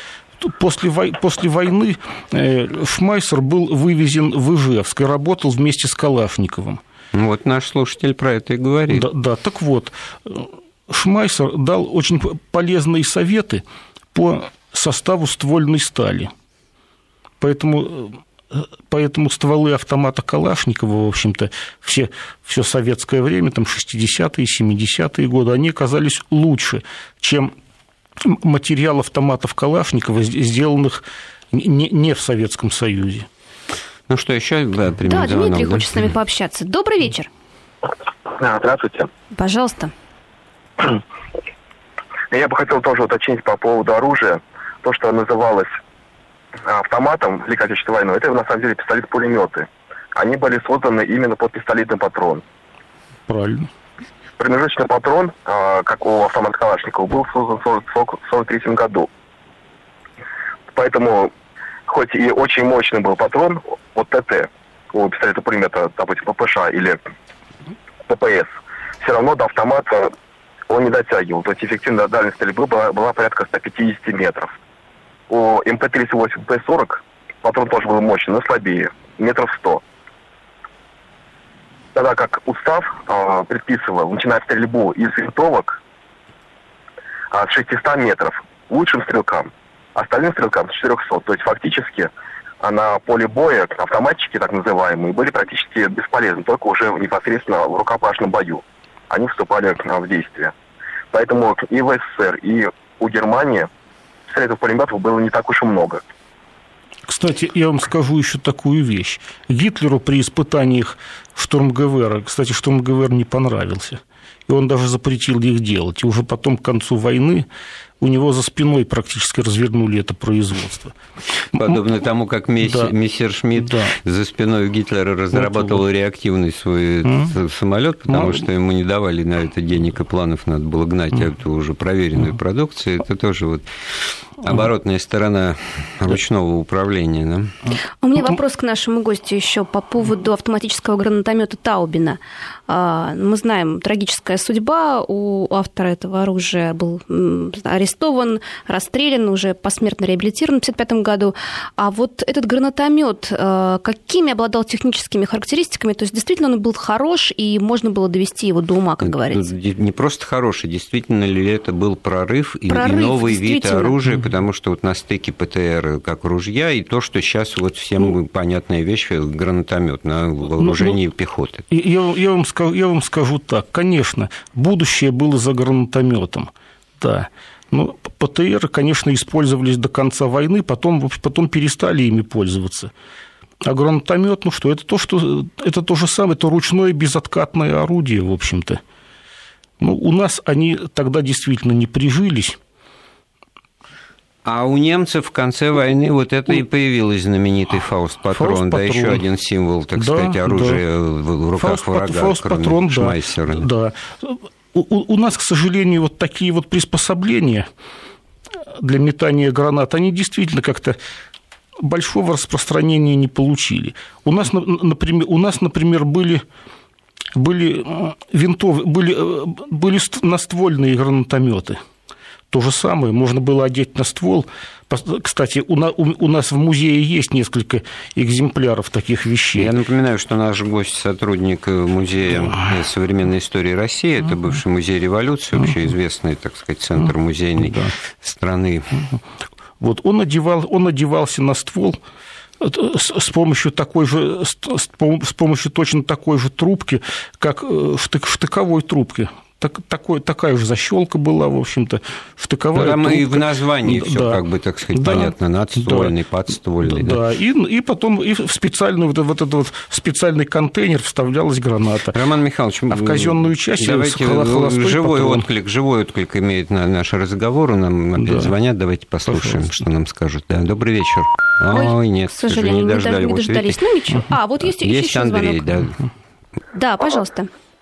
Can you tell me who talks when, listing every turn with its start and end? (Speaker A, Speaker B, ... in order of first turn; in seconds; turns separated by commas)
Speaker A: 0.4-6.8, Speaker B: 7.1-9.1, Speaker A: 8.9-16.3, Speaker A: 17.4-27.5, Speaker A: 28.2-33.3, Speaker B: 34.1-36.0, Speaker C: 35.0-37.3, Speaker D: 38.4-39.1, Speaker C: 39.3-39.9, Speaker D: 42.3-45.7, Speaker D: 46.6-52.4, Speaker A: 53.3-53.7, Speaker D: 54.4-59.1, Speaker D: 60.7-61.3, Speaker D: 61.9-67.0, Speaker D: 68.1-70.1, Speaker D: 70.7-74.5, Speaker D: 75.3-79.8, Speaker D: 81.9-85.8, Speaker D: 87.3-100.5, Speaker D: 101.1-103.7, Speaker D: 104.3-106.0, Speaker A: 107.1-117.5, Speaker A: 118.0-120.9, Speaker B: 121.5-137.5, Speaker A: 122.6-122.9, Speaker A: 123.6-123.9, Speaker A: 125.3-125.8, Speaker A: 127.0-127.3, Speaker A: 128.1-128.4, Speaker C: 138.0-159.4, Speaker B: 159.0-171.6, Speaker C: 162.7-163.9, Speaker A: 170.6-170.9, Speaker A: 171.7-182.9, Speaker A: 183.6-188.8, Speaker A: 189.8-192.6, Speaker B: 194.4-203.7, Speaker A: 198.3-199.2, Speaker A: 200.0-200.8, Speaker A: 201.6-207.7, Speaker A: 208.8-211.0, Speaker A: 211.8-216.4, Speaker A: 217.3-221.8, Speaker A: 222.5-229.7, Speaker B: 229.5-239.0, Speaker A: 237.6-237.9, Speaker A: 239.8-242.0, Speaker A: 242.6-254.4, Speaker B: 252.7-257.2, Speaker A: 254.9-256.1, Speaker A: 256.8-262.1, Speaker B: 262.1-273.8, Speaker A: 262.9-265.4, Speaker A: 268.2-268.5, Speaker A: 269.3-269.7, Speaker C: 271.7-275.7, Speaker B: 274.6-276.0, Speaker C: 276.7-277.5